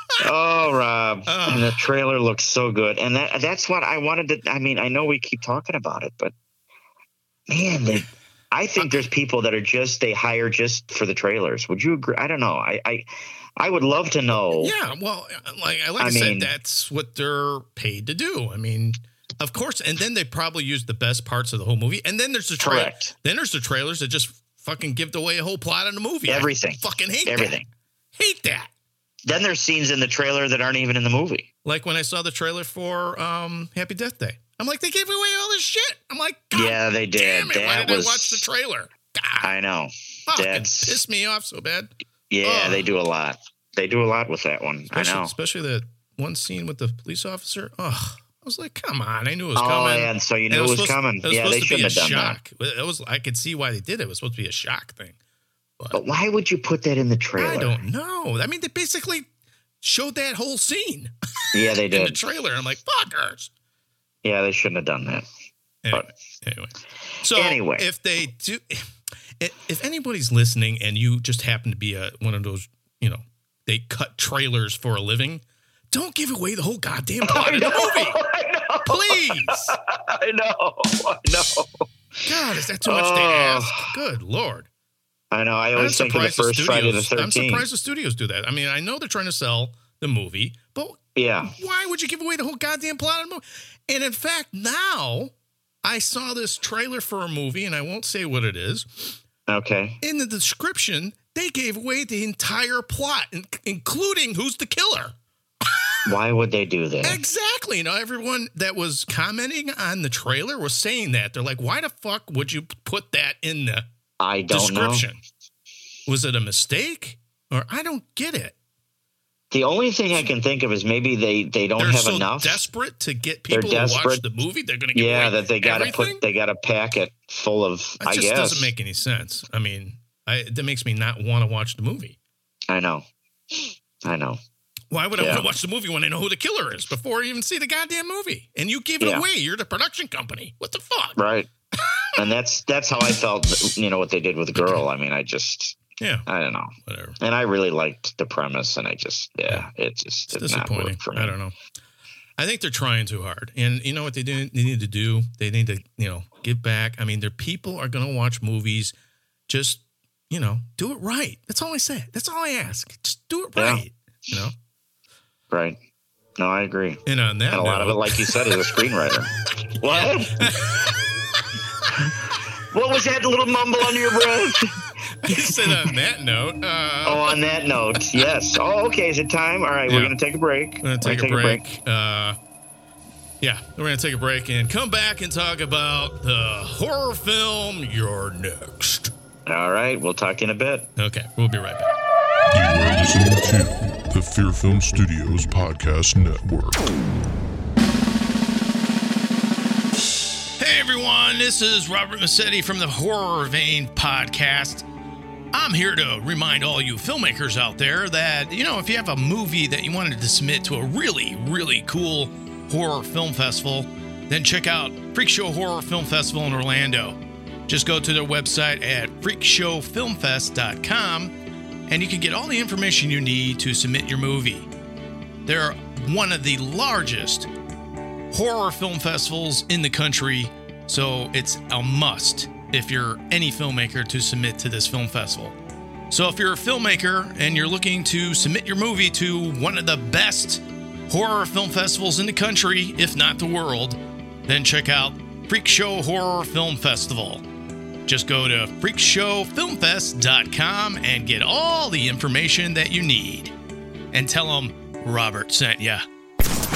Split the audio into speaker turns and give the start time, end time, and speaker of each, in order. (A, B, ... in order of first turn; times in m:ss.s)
0:00.2-0:06.3 A
0:01.3-0:01.8 B
0:07.5-0:14.7 A
0:14.6-0:27.6 B
0:16.0-0:16.5 A
0:22.6-0:23.1 A
0:26.3-0:27.7 A
0:28.2-0:28.7 B
0:29.3-0:31.5 A
0:31.6-0:39.5 B
0:36.5-0:38.4 A
0:39.4-0:41.0 A
0:40.3-0:41.9 B
0:42.3-0:45.3 A
0:42.4-0:42.9 B
0:44.9-0:55.2 B
0:49.6-0:52.4 A
0:55.9-0:57.8 A
0:57.4-0:59.3 B
0:59.8-1:03.5 B
1:01.5-1:02.2 A
1:04.2-1:05.2 A
1:05.8-1:08.9 B
1:07.3-1:07.9 A
1:09.4-1:18.2 B
1:17.2-1:21.8 A
1:18.9-1:19.8 B
1:22.3-1:24.7 B
1:22.8-1:23.9 A
1:25.3-1:27.7 A
1:25.8-1:39.2 B
1:31.2-1:31.5 A
1:39.5-1:40.0 A
1:40.0-1:46.0 B
1:46.1-1:47.2 A
1:47.0-1:53.8 B
1:54.2-1:55.1 A
1:54.5-1:55.2 B
1:56.1-1:58.6 B
1:59.5-2:02.6 A
2:01.8-2:06.2 B
2:03.5-2:04.2 A
2:04.9-2:08.7 A
2:08.0-2:12.2 B
2:12.7-2:14.4 A
2:14.9-2:21.2 B
2:15.2-2:15.5 A
2:19.0-2:19.2 A
2:21.2-2:21.5 A
2:21.7-2:22.1 B
2:22.2-2:31.4 A
2:24.6-2:24.8 B
2:26.0-2:26.3 B
2:26.8-2:27.2 B
2:30.3-2:31.5 B
2:32.4-2:38.9 B
2:39.5-2:44.6 B
2:43.6-2:43.8 A
2:45.5-2:45.8 A
2:46.4-2:47.0 A
2:47.1-2:48.6 B
2:47.5-2:50.5 A
2:49.8-2:50.9 B
2:52.7-2:55.9 A
2:55.2-2:57.4 B
2:57.0-3:01.6 A
2:57.9-2:58.3 B
2:59.9-3:00.2 B
3:00.8-3:02.4 B
3:03.4-3:09.1 B
3:09.5-3:10.9 A
3:11.0-3:11.9 B
3:12.5-3:16.9 C
3:20.6-3:24.9 B
3:25.5-3:41.3 B
3:41.9-3:44.7 B
3:45.5-3:47.5 B
3:48.3-3:55.6 B
3:56.1-4:07.4 B
4:08.1-4:13.5 B
4:14.1-4:16.0 B